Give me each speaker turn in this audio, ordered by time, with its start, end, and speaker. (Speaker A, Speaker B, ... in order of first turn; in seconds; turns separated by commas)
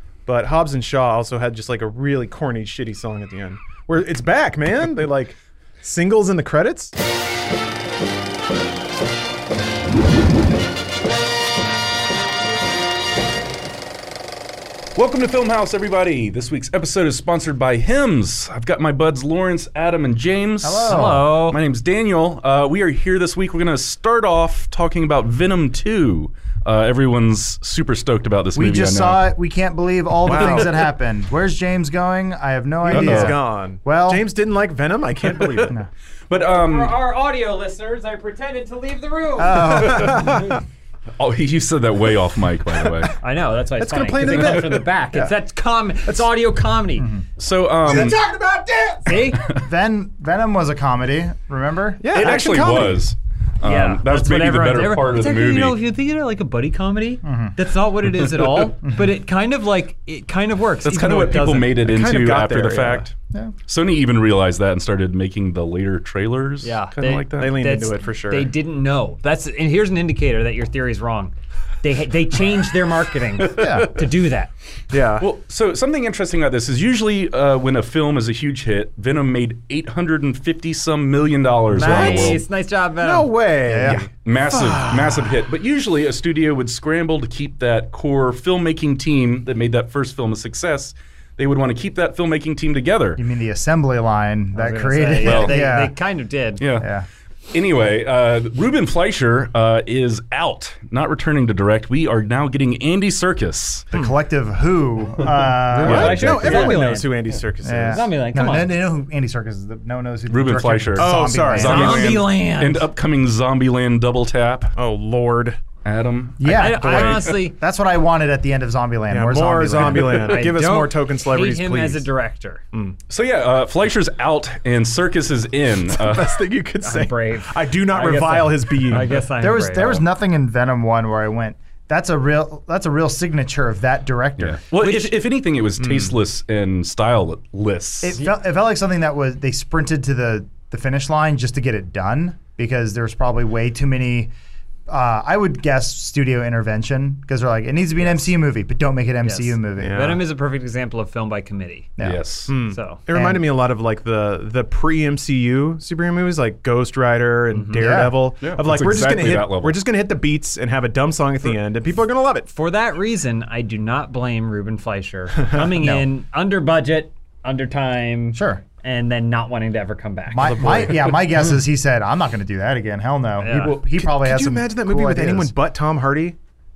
Speaker A: 0.2-6.9, Speaker B: 14.9-29.2, Speaker C: 20.6-21.4, Speaker D: 20.9-21.6, Speaker C: 28.5-34.2, Speaker A: 30.2-30.9, Speaker A: 32.8-35.8, Speaker B: 32.9-33.3, Speaker B: 35.2-35.7, Speaker B: 36.3-36.9, Speaker D: 36.4-40.3, Speaker C: 39.4-40.3, Speaker B: 39.7-40.5, Speaker A: 39.8-40.5, Speaker B: 41.2-43.1, Speaker D: 43.2-47.1, Speaker A: 43.8-45.3, Speaker C: 47.0-47.2, Speaker B: 47.4-48.2, Speaker A: 47.9-49.0, Speaker C: 47.9-52.0, Speaker D: 49.0-49.5, Speaker B: 49.4-49.6, Speaker A: 52.0-53.0, Speaker B: 52.1-55.8, Speaker D: 53.6-61.7, Speaker C: 57.2-57.5, Speaker B: 58.2-58.6, Speaker B: 60.8-63.1, Speaker A: 61.8-63.1, Speaker B: 63.7-67.6, Speaker D: 66.6-74.5, Speaker A: 67.3-68.5, Speaker C: 73.5-73.9, Speaker A: 74.9-75.3, Speaker B: 75.2-82.4, Speaker D: 81.7-83.3, Speaker A: 81.8-82.4, Speaker A: 83.0-85.4, Speaker C: 83.6-84.0, Speaker B: 83.8-93.2, Speaker C: 93.2-95.9, Speaker D: 94.5-96.6, Speaker B: 95.2-95.5, Speaker B: 96.6-96.9, Speaker C: 96.8-97.0, Speaker B: 97.5-103.8, Speaker C: 103.9-106.9, Speaker D: 105.7-107.2, Speaker A: 105.8-108.1, Speaker B: 105.8-106.4, Speaker C: 107.6-112.2, Speaker D: 107.9-108.7, Speaker B: 110.3-114.7, Speaker A: 111.0-112.2, Speaker D: 111.6-112.9, Speaker A: 114.7-115.6, Speaker B: 115.8-117.3, Speaker C: 116.4-120.5, Speaker D: 116.5-117.6, Speaker A: 119.1-122.0, Speaker D: 120.1-122.6, Speaker B: 123.1-126.4, Speaker A: 125.9-129.2, Speaker D: 126.8-130.0, Speaker C: 129.4-134.6, Speaker B: 134.4-138.2, Speaker D: 134.8-135.1, Speaker A: 135.8-136.2, Speaker C: 138.0-144.3, Speaker C: 144.9-150.2, Speaker D: 149.2-151.9, Speaker A: 149.8-150.2, Speaker C: 152.0-152.2, Speaker B: 152.0-152.5, Speaker A: 152.5-162.5, Speaker D: 152.6-153.0, Speaker C: 153.1-153.4, Speaker D: 157.5-157.8, Speaker C: 157.8-158.1, Speaker B: 158.4-159.8, Speaker D: 162.5-171.0, Speaker C: 165.8-166.1, Speaker C: 168.3-168.6, Speaker C: 170.3-175.5, Speaker B: 170.4-171.1, Speaker D: 173.4-173.8, Speaker A: 173.9-176.3